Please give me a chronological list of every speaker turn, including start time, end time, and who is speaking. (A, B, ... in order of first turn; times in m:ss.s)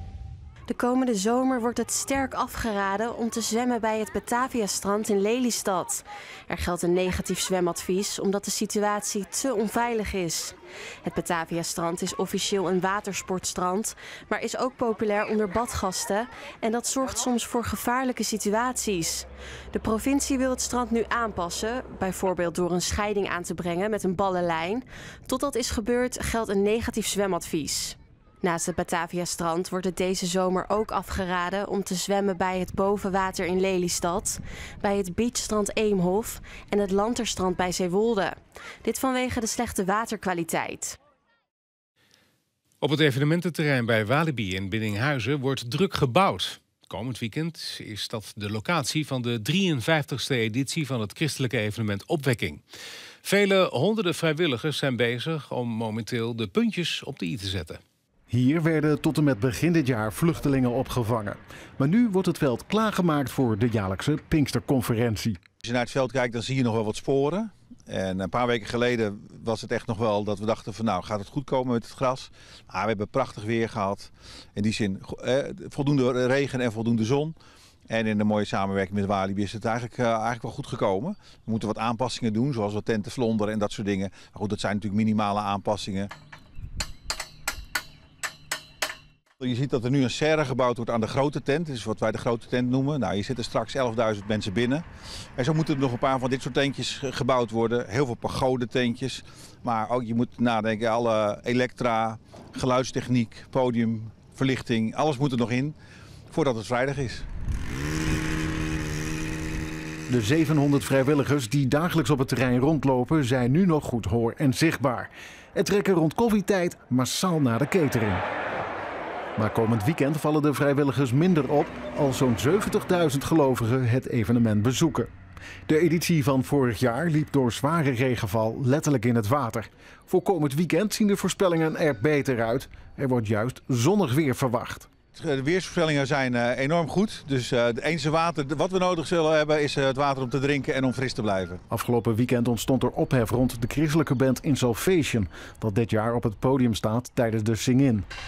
0:00.7-0:41.0 A
0:42.8-0:52.6 B
0:53.2-0:57.8 B
0:58.3-1:05.4 C
1:05.6-1:17.3 D
1:17.9-1:26.1 D
1:29.4-1:34.8 D
1:35.4-1:45.7 D
1:46.3-1:47.3 D
1:50.1-1:58.2 C
1:59.4-2:05.1 C
2:05.7-2:14.9 C
2:15.2-2:21.6 D
2:21.7-2:28.1 C